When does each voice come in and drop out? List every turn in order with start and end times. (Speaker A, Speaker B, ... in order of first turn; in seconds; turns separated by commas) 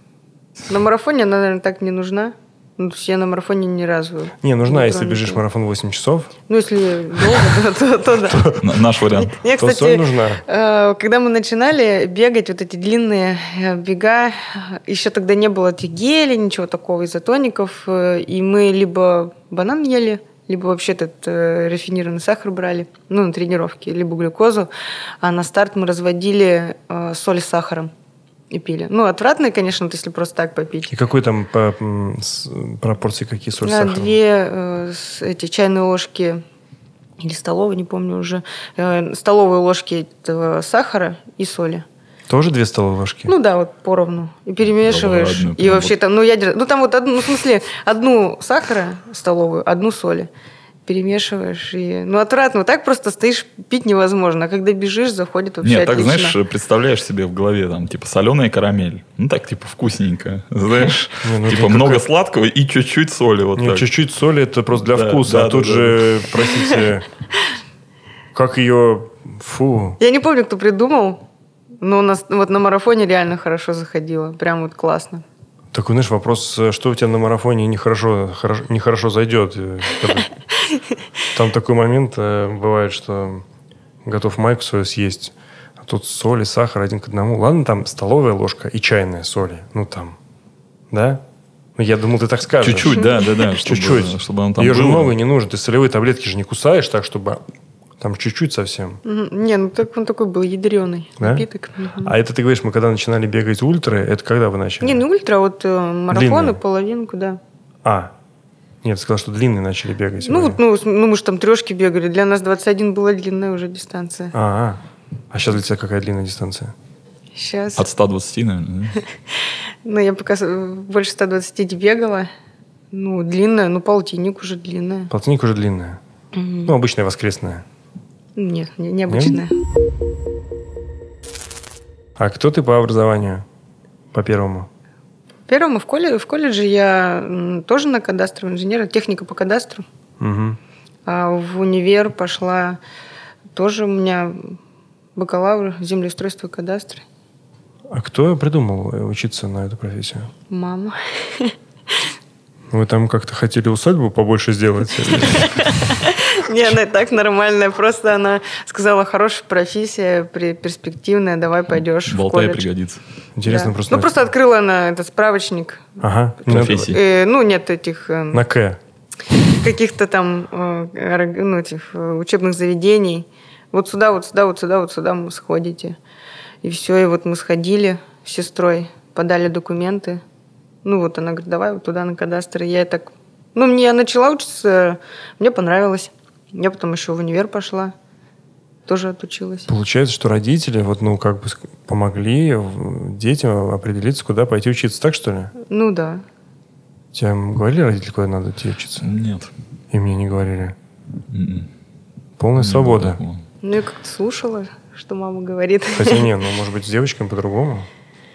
Speaker A: 0.7-5.4, Speaker B: 4.4-6.3, Speaker A: 6.5-8.6, Speaker B: 8.3-8.6, Speaker C: 8.6-9.4, Speaker A: 9.1-24.7, Speaker B: 9.5-10.4, Speaker A: 25.2-27.9, Speaker A: 28.5-30.9, Speaker B: 30.9-34.1, Speaker A: 33.6-36.4, Speaker A: 37.2-41.8, Speaker B: 42.3-43.3, Speaker A: 43.3-50.3, Speaker C: 44.8-46.0, Speaker A: 50.9-56.4, Speaker C: 55.6-63.9, Speaker B: 61.2-62.0, Speaker B: 63.6-67.0, Speaker C: 64.9-66.2, Speaker B: 68.3-70.0, Speaker A: 70.0-71.2, Speaker A: 71.8-75.2, Speaker B: 75.7-80.3, Speaker B: 81.3-83.4, Speaker B: 84.0-90.2, Speaker B: 90.9-91.2, Speaker B: 91.8-93.0, Speaker C: 92.6-95.1, Speaker B: 93.6-97.4, Speaker B: 98.0-99.0, Speaker A: 99.0-102.1, Speaker B: 101.2-101.5, Speaker B: 102.0-105.0, Speaker A: 104.8-107.4, Speaker B: 106.1-106.6, Speaker B: 107.8-108.1, Speaker B: 108.8-110.6, Speaker A: 110.2-114.3, Speaker B: 114.3-114.8, Speaker B: 115.3-116.7, Speaker A: 117.3-117.8, Speaker C: 117.8-119.0, Speaker A: 119.8-122.3, Speaker A: 122.9-125.1, Speaker B: 125.1-126.0, Speaker A: 126.3-126.7, Speaker B: 126.7-127.6, Speaker A: 128.3-129.5, Speaker B: 129.1-129.4, Speaker B: 132.2-133.4, Speaker B: 134.1-134.7, Speaker A: 135.5-139.8, Speaker B: 140.2-140.6, Speaker A: 141.1-142.8, Speaker A: 143.5-144.6, Speaker A: 145.2-147.0, Speaker B: 147.9-150.3, Speaker A: 150.5-151.5, Speaker B: 152.7-155.8, Speaker A: 155.2-162.7, Speaker C: 162.1-163.0, Speaker B: 163.3-164.1, Speaker A: 163.4-168.4, Speaker B: 166.0-166.9, Speaker C: 166.5-167.0, Speaker B: 168.3-168.8, Speaker A: 169.5-176.0, Speaker A: 176.6-180.2, Speaker A: 180.8-187.9, Speaker A: 188.9-189.7, Speaker B: 189.7-195.5, Speaker A: 195.6-196.2, Speaker B: 197.1-199.1, Speaker C: 199.0-199.5, Speaker B: 199.9-200.8, Speaker C: 201.3-201.7, Speaker B: 202.4-203.2, Speaker C: 202.6-203.4, Speaker A: 203.6-206.3, Speaker B: 205.9-207.9